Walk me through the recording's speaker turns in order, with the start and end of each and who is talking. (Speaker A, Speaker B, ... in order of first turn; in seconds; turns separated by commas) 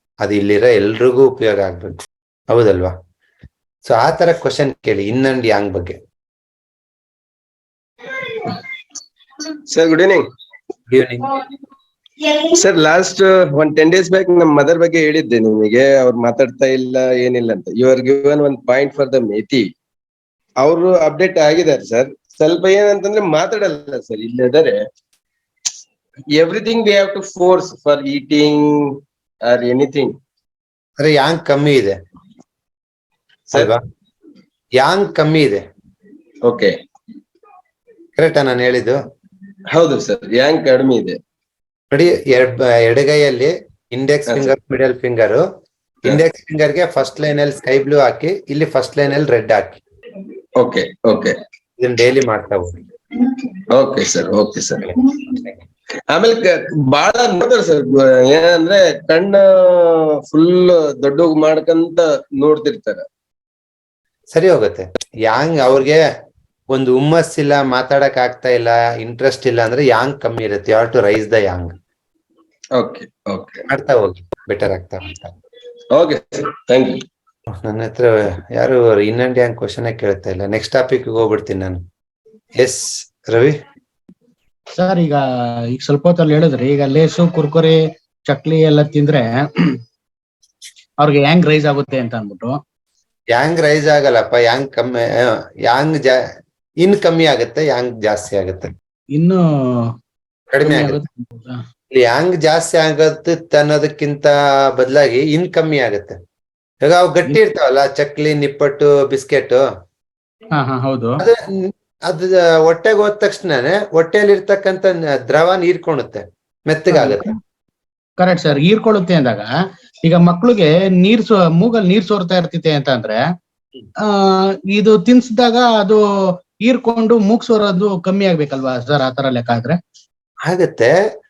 Speaker A: 0.2-2.0, Speaker A: 2.5-2.9, Speaker A: 3.9-6.0, Speaker B: 9.7-10.2, Speaker A: 10.9-11.3, Speaker B: 12.4-19.7, Speaker B: 20.6-24.8, Speaker B: 26.4-28.9, Speaker B: 29.5-30.1, Speaker A: 31.0-32.0, Speaker A: 33.5-33.8, Speaker A: 34.8-35.6, Speaker B: 36.5-36.7, Speaker A: 38.2-39.0, Speaker B: 39.8-41.2, Speaker A: 41.9-45.4, Speaker B: 44.3-44.5, Speaker A: 46.1-49.8, Speaker B: 50.6-51.4, Speaker A: 51.8-52.8, Speaker B: 53.7-55.0, Speaker B: 56.1-63.0, Speaker A: 64.3-66.0, Speaker A: 66.7-71.8, Speaker B: 72.8-73.6, Speaker A: 73.7-75.4, Speaker B: 75.9-77.0, Speaker A: 77.5-81.8, Speaker A: 82.6-83.6, Speaker C: 84.8-85.2, Speaker C: 85.7-89.3, Speaker C: 91.0-92.6, Speaker A: 93.3-96.2, Speaker A: 96.8-98.7, Speaker C: 99.2-99.4, Speaker A: 100.5-101.0, Speaker C: 100.6-101.6, Speaker A: 101.9-106.2, Speaker A: 106.8-109.6, Speaker C: 110.6-111.2, Speaker A: 111.2-117.3, Speaker C: 116.9-117.4, Speaker C: 118.2-119.5, Speaker C: 120.0-123.2, Speaker C: 124.1-126.0, Speaker C: 126.7-129.8, Speaker A: 130.5-131.0